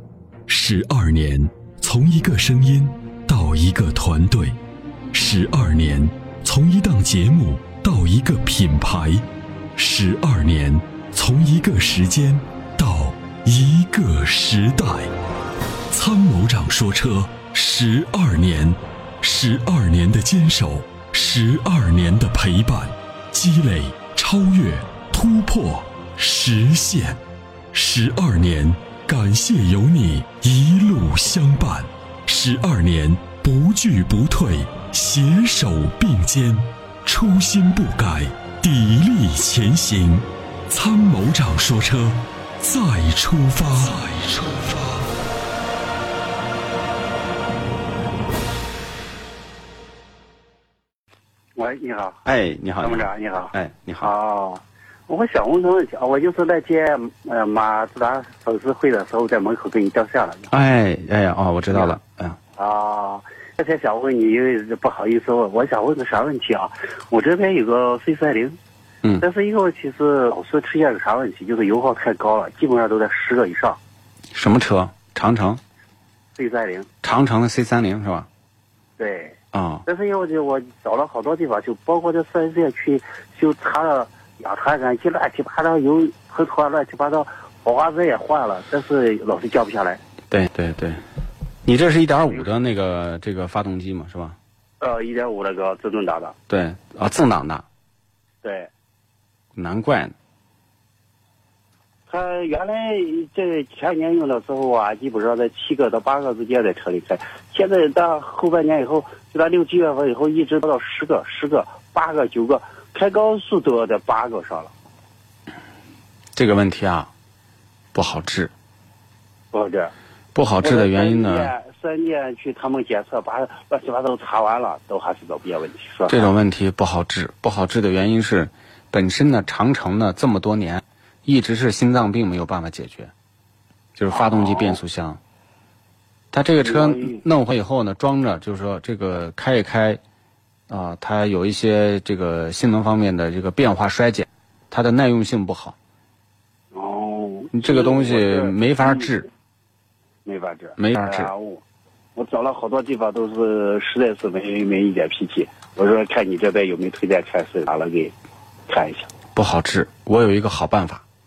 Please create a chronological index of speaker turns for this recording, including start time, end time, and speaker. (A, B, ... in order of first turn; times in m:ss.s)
0:00.5-0:04.6 A
0:05.1-0:15.1 A
0:15.9-0:27.2 A
0:27.7-0:45.0 A
0:51.6-0:52.2 B
0:52.2-0:54.1 C
0:52.8-1:00.5 B
1:00.5-1:02.4 C
1:01.7-1:02.0 B
1:02.6-1:08.6 B
1:09.2-1:13.8 B
1:14.3-1:15.6 C
1:16.4-1:16.9 B
1:17.0-1:18.3 C
1:19.0-1:30.0 B
1:19.5-1:19.8 C
1:30.3-1:31.0 C
1:31.6-1:34.4 C
1:34.8-1:36.3 B
1:36.5-1:37.6 C
1:38.4-1:38.7 B
1:39.5-1:40.1 C
1:42.1-1:54.7 B
1:56.3-1:57.1 C
1:57.9-1:58.5 C
1:59.5-1:59.9 B
2:00.3-2:01.5 C
2:00.6-2:06.3 B
2:06.1-2:13.1 C
2:14.0-2:15.2 C
2:14.1-2:14.8 B
2:16.3-2:20.0 C
2:16.6-2:17.2 B
2:20.7-2:25.8 C
2:26.7-2:29.1 B
2:27.5-2:29.3 C
2:30.2-2:31.6 B
2:30.8-2:31.3 C
2:32.2-2:38.1 B
2:38.7-2:39.1 B
2:39.3-2:41.0 C